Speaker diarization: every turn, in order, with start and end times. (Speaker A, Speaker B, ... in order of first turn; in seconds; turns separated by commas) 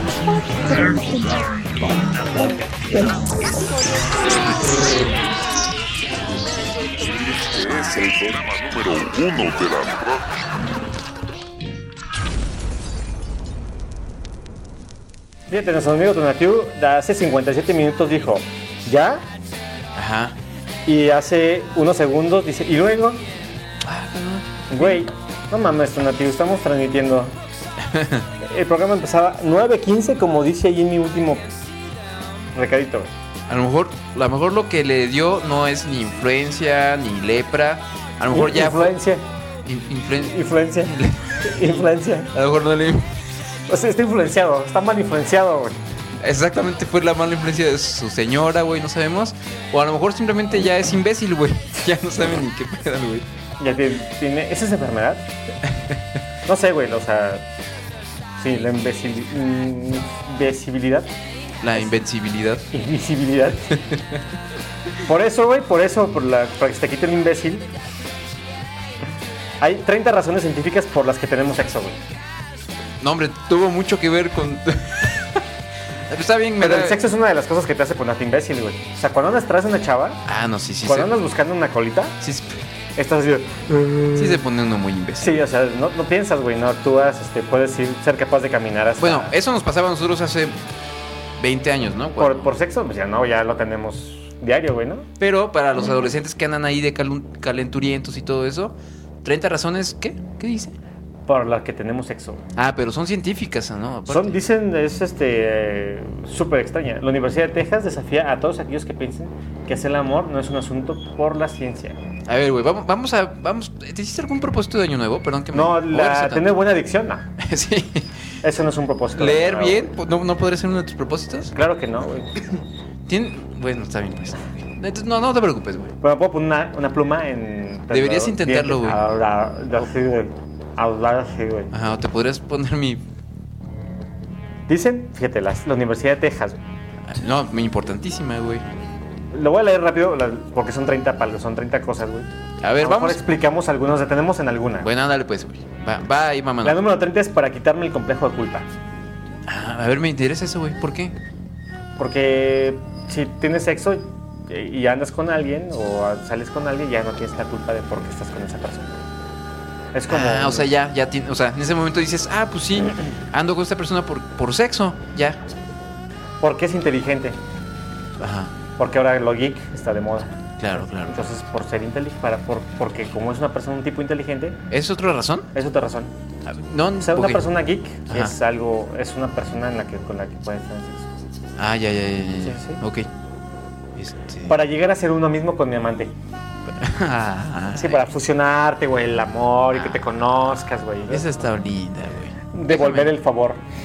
Speaker A: 7.2-10.4, Speaker B: 15.5-19.2, Speaker C: 19.9-20.4, Speaker B: 20.9-23.2, Speaker C: 23.9-25.1, Speaker B: 24.7-27.4, Speaker C: 27.8-28.3, Speaker B: 28.4-31.5, Speaker B: 32.5-33.1, Speaker C: 33.5-39.0, Speaker B: 38.3-39.2, Speaker C: 39.6-43.1, Speaker B: 40.2-42.3, Speaker B: 43.7-45.8, Speaker C: 46.2-53.3, Speaker B: 53.6-55.3, Speaker C: 55.7-56.0, Speaker B: 56.5-57.5, Speaker B: 58.4-61.1, Speaker C: 61.6-62.7, Speaker B: 62.7-63.8, Speaker C: 63.7-64.2, Speaker B: 65.0-67.7, Speaker B: 69.6-72.0, Speaker C: 73.0-75.4, Speaker C: 76.1-77.0, Speaker B: 76.6-80.2, Speaker C: 80.3-81.2, Speaker B: 80.8-82.2, Speaker C: 82.2-82.5, Speaker B: 83.0-84.4, Speaker C: 84.2-85.5, Speaker B: 85.2-89.3, Speaker C: 89.0-90.6, Speaker C: 91.4-92.6, Speaker B: 92.2-95.0, Speaker C: 95.2-100.8, Speaker B: 101.3-102.4, Speaker C: 102.6-104.4, Speaker B: 104.1-112.0, Speaker C: 112.3-116.7, Speaker B: 115.5-117.2, Speaker C: 117.4-118.2, Speaker B: 118.4-119.9, Speaker C: 119.2-121.5, Speaker B: 121.5-122.5, Speaker C: 123.1-125.9, Speaker B: 126.0-131.7, Speaker C: 127.9-129.0, Speaker C: 131.7-133.0, Speaker B: 134.7-136.6, Speaker C: 137.1-138.6, Speaker B: 139.3-144.9, Speaker C: 142.6-143.3, Speaker C: 144.8-146.8, Speaker B: 146.6-148.7, Speaker C: 149.5-151.2, Speaker B: 152.0-159.1, Speaker B: 159.9-160.7, Speaker C: 160.1-165.4, Speaker B: 166.4-167.4, Speaker C: 168.2-168.5, Speaker B: 168.8-170.4, Speaker C: 170.6-171.2, Speaker B: 171.0-174.6, Speaker C: 174.7-175.5, Speaker B: 175.5-176.1, Speaker C: 176.5-177.5, Speaker B: 177.0-181.1, Speaker C: 178.1-178.4, Speaker C: 181.6-183.1, Speaker B: 182.4-182.8, Speaker C: 184.0-184.6, Speaker B: 184.5-186.1, Speaker C: 186.7-188.1, Speaker B: 187.7-191.4, Speaker C: 189.7-193.2, Speaker B: 192.5-193.6